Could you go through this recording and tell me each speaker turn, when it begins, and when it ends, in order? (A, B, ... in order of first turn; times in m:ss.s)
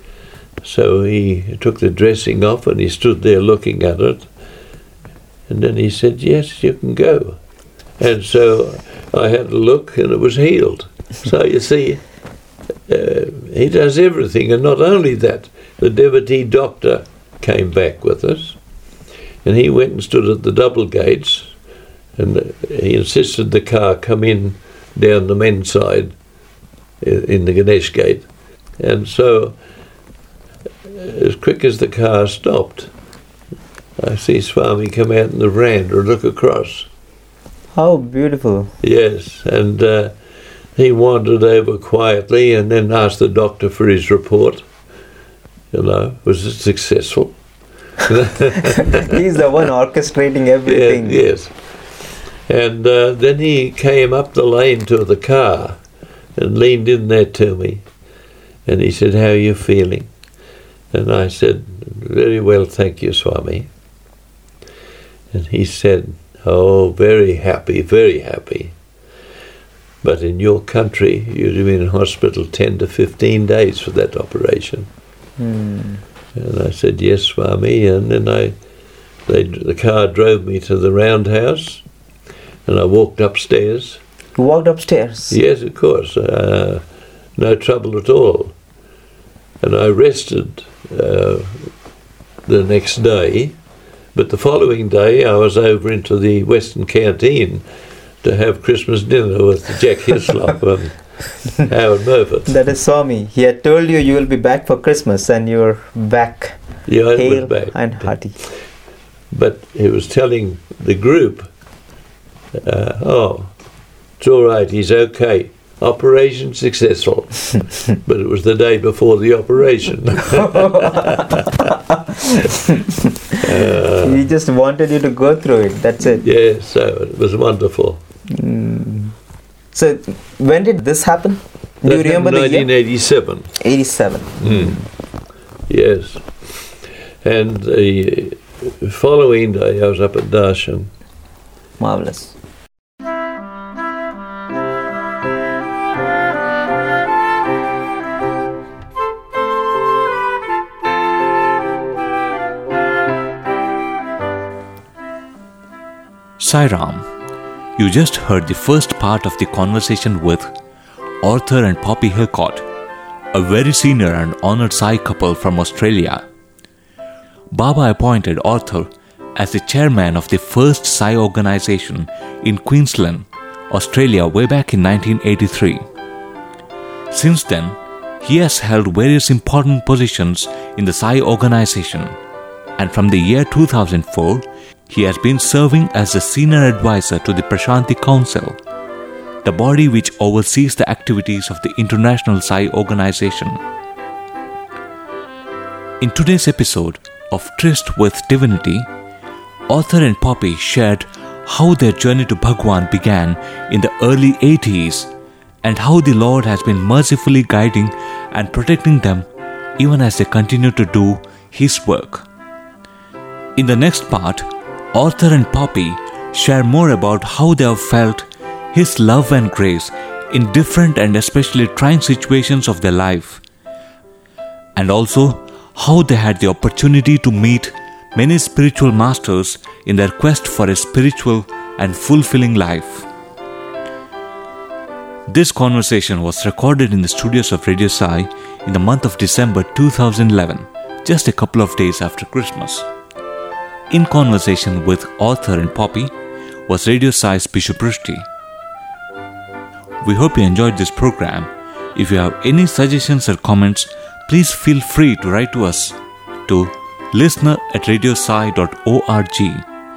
0:00.6-0:04.3 A
0:05.5-0:07.4 A
0:08.0-0:12.0 A
0:12.9-0:18.6 A
0:19.4-0:21.5 A
0:22.2-0:26.2 A
0:27.0-0:28.3 A
0:28.8-0:29.6 A
0:30.9-0:32.9 A
0:34.0-0:36.9 A
0:37.7-0:38.7 B
0:38.8-0:40.1 A
0:40.8-0:44.6 A
0:45.7-0:47.4 A
0:48.0-0:49.2 A
0:48.8-0:51.2 B
0:50.7-0:51.6 A
0:52.5-0:55.8 A
0:56.4-0:57.8 A
0:58.7-1:00.1 A
1:00.9-1:03.7 A
1:05.3-1:08.7 A
1:10.0-1:14.9 A
1:15.4-1:16.0 B
1:16.3-1:18.6 A
1:19.3-1:21.8 A
1:22.7-1:24.0 A
1:24.4-1:25.4 B
1:25.3-1:26.8 A
1:27.4-1:28.5 A
1:29.6-1:31.7 A
1:32.5-1:33.6 A
1:34.1-1:37.6 A
1:38.2-1:42.5 A
1:42.5-1:46.6 B
1:46.9-1:48.2 A
1:47.1-1:48.4 B
1:49.3-1:51.5 A
1:52.5-1:53.5 A
1:54.2-2:01.8 A
2:00.4-2:01.4 B
2:02.2-2:02.9 B
2:03.4-2:04.2 A
2:04.0-2:06.2 B
2:06.2-2:08.0 A
2:08.3-2:09.1 B
2:09.7-2:12.7 B
2:11.8-2:13.5 A
2:13.6-2:14.8 B
2:14.4-2:14.8 A
2:15.7-2:20.9 A
2:21.8-2:22.4 B
2:36.4-2:37.1 C
2:37.8-2:40.5 C
2:41.2-2:42.7 C
2:43.3-2:46.2 C
2:47.5-2:55.9 C
2:57.1-3:02.2 C
3:02.8-3:08.6 C
3:09.4-3:13.6 C
3:16.0-3:18.9 C
3:19.7-3:25.1 C
3:25.6-3:32.3 C
3:33.6-3:43.4 C
3:44.8-3:53.1 C
3:55.3-4:02.9 C
4:03.9-4:06.1 C
4:06.7-4:08.3 C
4:10.0-4:19.6 C